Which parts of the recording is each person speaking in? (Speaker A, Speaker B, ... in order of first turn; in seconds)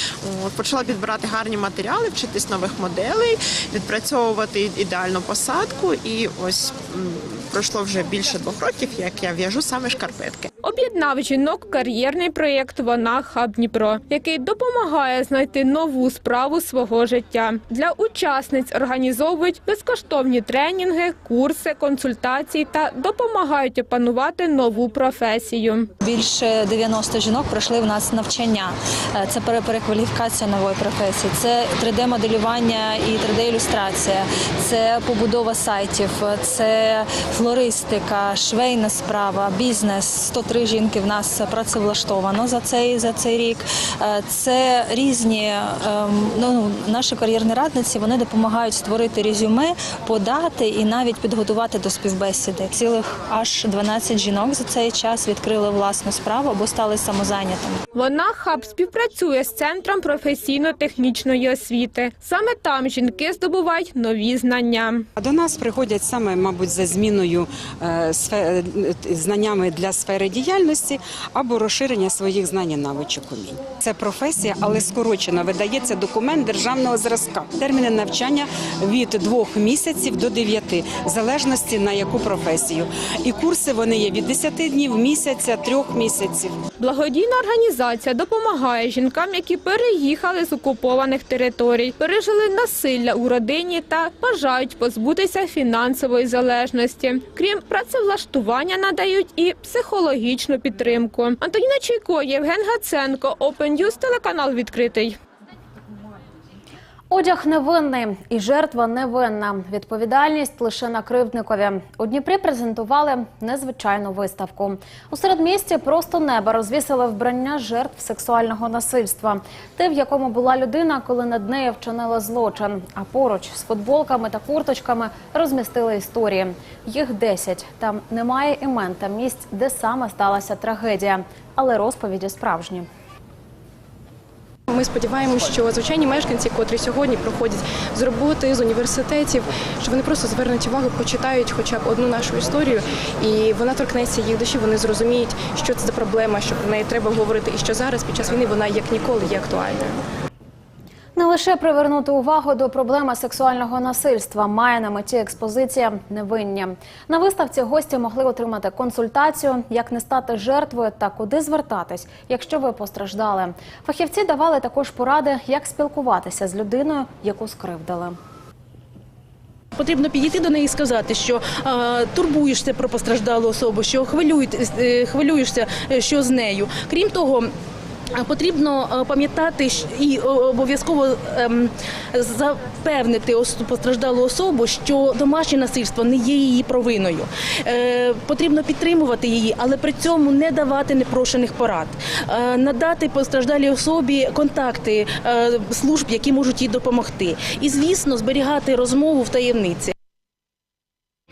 Speaker A: 0.2-10.5
Speaker B: 10.6-25.9, 57.9-65.1, 86.8-105.2
Speaker C: 26.0-57.8
Speaker D: 65.2-86.6
Speaker E: 107.1-132.9, 151.1-168.2
Speaker F: 134.7-150.0
Speaker G: 169.8-177.5, 178.2-199.9